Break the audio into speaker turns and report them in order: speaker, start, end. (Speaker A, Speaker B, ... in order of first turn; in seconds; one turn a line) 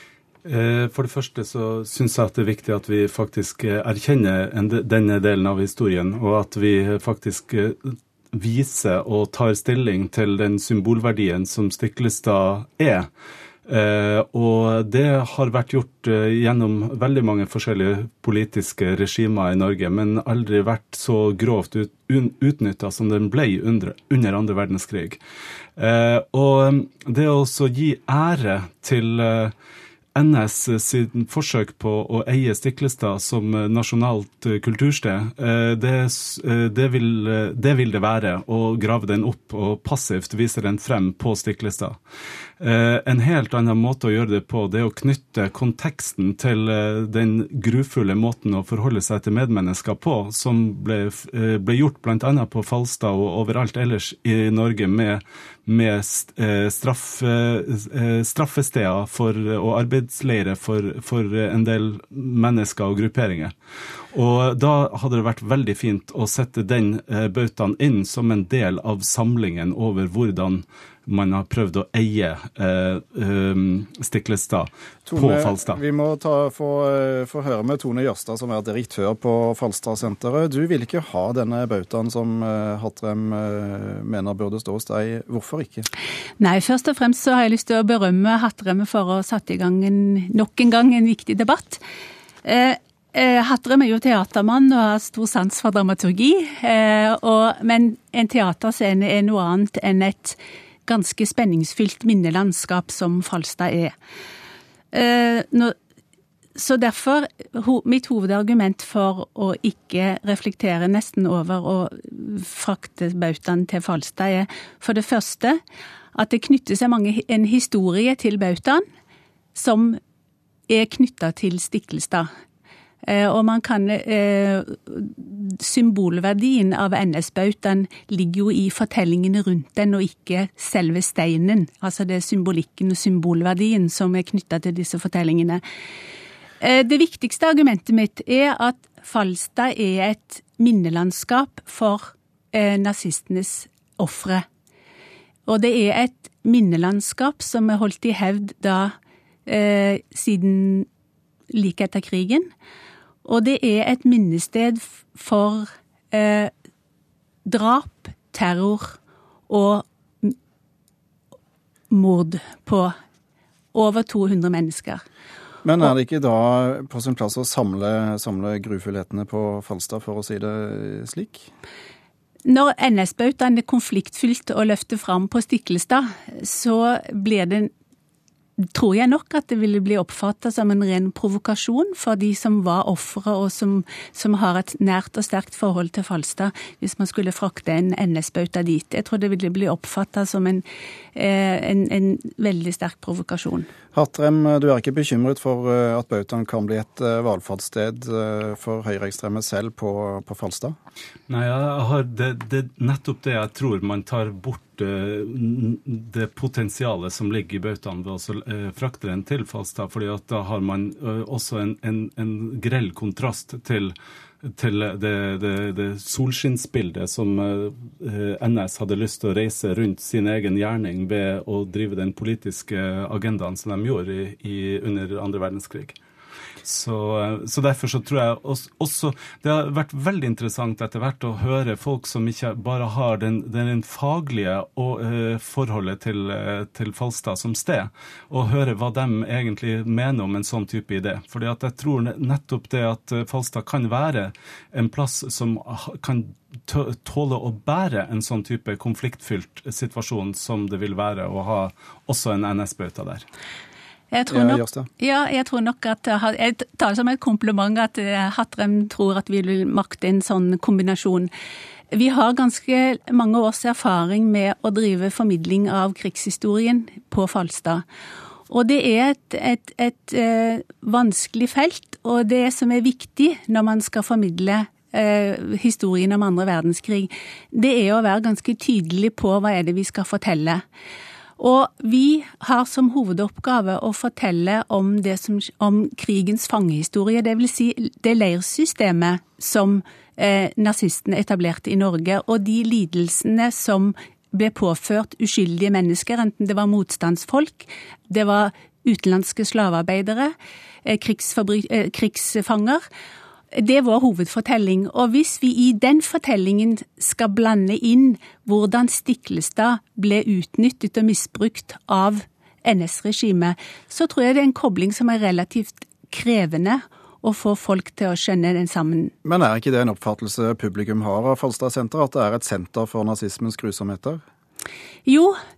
Speaker A: 0.4-13.1
Speaker A: 13.7-25.2
Speaker A: 25.8-29.5
Speaker A: 30.1-42.0
Speaker A: 42.6-63.5
Speaker A: 64.1-75.8
Speaker B: 75.0-85.8
Speaker C: 86.4-91.8
Speaker C: 92.4-103.9
Speaker C: 104.9-105.7
Speaker C: 106.5-115.6
Speaker C: 116.1-118.8
Speaker C: 119.5-120.0
Speaker C: 120.7-122.3
Speaker C: 123.0-135.6
Speaker C: 136.6-144.4
Speaker C: 145.5-148.9
Speaker C: 149.4-150.9
Speaker C: 151.5-152.5
Speaker C: 153.2-156.5
Speaker C: 157.4-159.0
Speaker C: 159.5-160.3
Speaker C: 161.9-162.9
Speaker C: 163.7-165.0
Speaker B: 165.6-171.5
Speaker C: 172.4-177.7
Speaker C: 178.6-190.6
Speaker C: 191.1-193.7
Speaker B: 193.9-200.8
Speaker A: 201.3-226.0
Speaker A: 226.6-253.2
Speaker C: 254.1-261.3
Speaker B: 254.3-254.9
Speaker C: 261.9-267.8
Speaker C: 268.5-280.6
Speaker C: 281.4-300.3
Speaker C: 300.8-302.8
Speaker C: 303.5-319.1
Speaker B: 319.2-324.2
Speaker C: 325.1-325.3